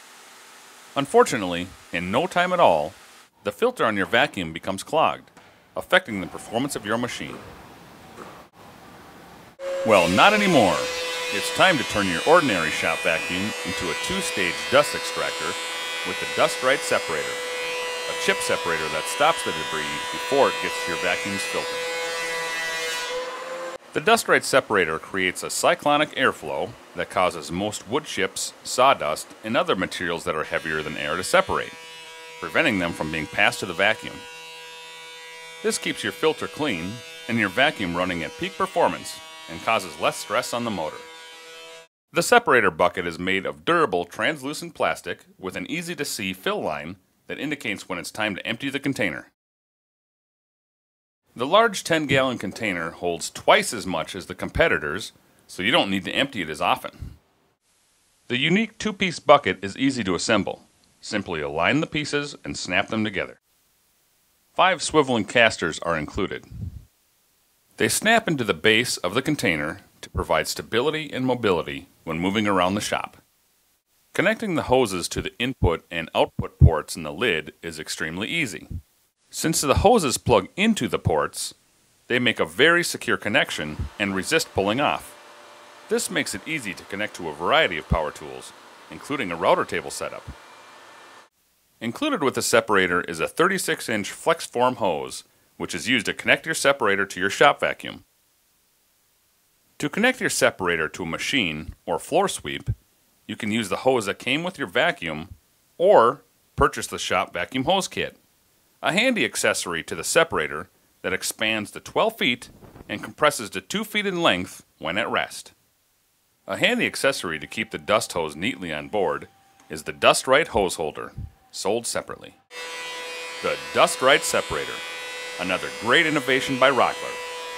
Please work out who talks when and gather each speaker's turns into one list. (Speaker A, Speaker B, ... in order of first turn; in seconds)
Speaker A: 1.0-7.4, 9.8-17.4, 18.1-21.9, 23.9-31.8, 32.4-34.2, 35.6-41.1, 42.1-49.3, 51.4-57.1, 58.3-63.4, 64.5-66.5, 67.8-73.2, 74.1-78.7, 79.3-81.5, 82.1-85.2, 85.9-90.3, 91.8-98.0, 99.8-102.7, 103.3-108.2, 108.8-115.5, 116.5-122.4, 123.4-124.8, 125.4-127.2